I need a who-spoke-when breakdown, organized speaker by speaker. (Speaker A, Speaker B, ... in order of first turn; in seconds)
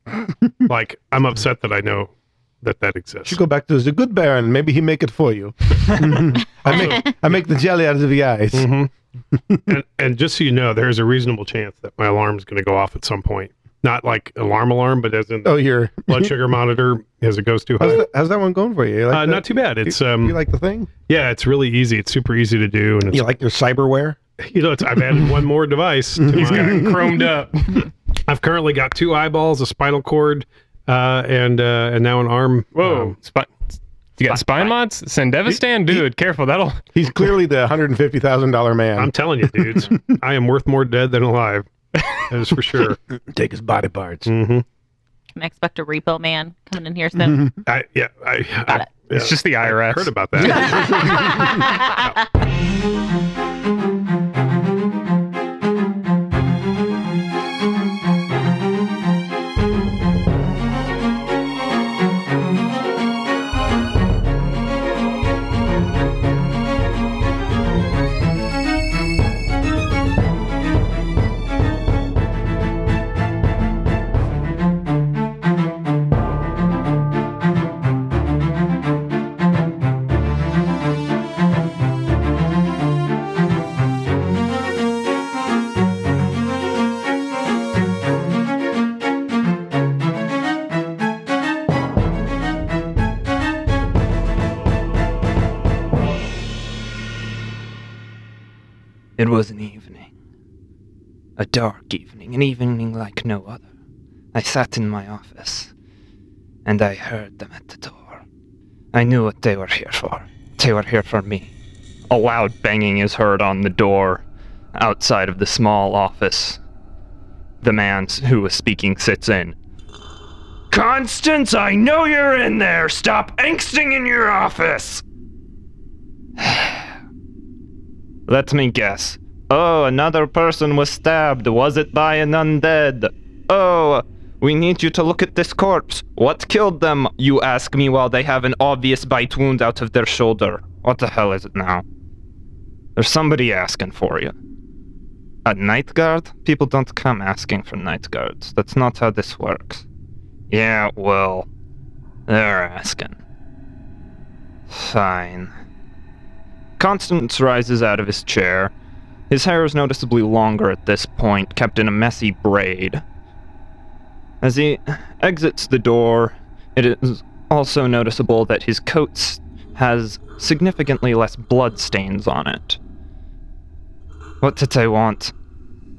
Speaker A: 0.7-3.4, 6.7-7.2, 8.5-8.9, 9.7-18.0, 19.1-20.4, 21.1-23.3, 24.4-27.1, 28.2-33.2, 39.0-43.0, 44.3-44.6, 47.7-52.2
Speaker B: 3.2-8.7, 9.3-9.7, 15.4-16.3, 17.8-20.9, 23.1-24.2, 26.2-27.2, 37.0-40.1, 43.3-44.3, 47.2-47.6
Speaker C: 26.4-27.9, 32.8-33.5, 34.2-36.8, 49.1-50.7
Speaker D: 34.3-34.7, 99.2-100.1, 101.4-103.6, 104.3-105.7, 106.7-108.2, 108.9-111.5, 112.1-114.2, 114.8-116.6, 117.6-119.6, 120.7-125.0, 126.4-126.8, 128.3-141.8, 143.0-144.3, 145.4-149.8, 150.5-151.5, 152.3-153.2, 154.7-155.5, 156.8-158.7, 159.3-163.0, 164.4-172.8, 174.4-175.3
Speaker E: 45.4-47.5, 50.5-52.1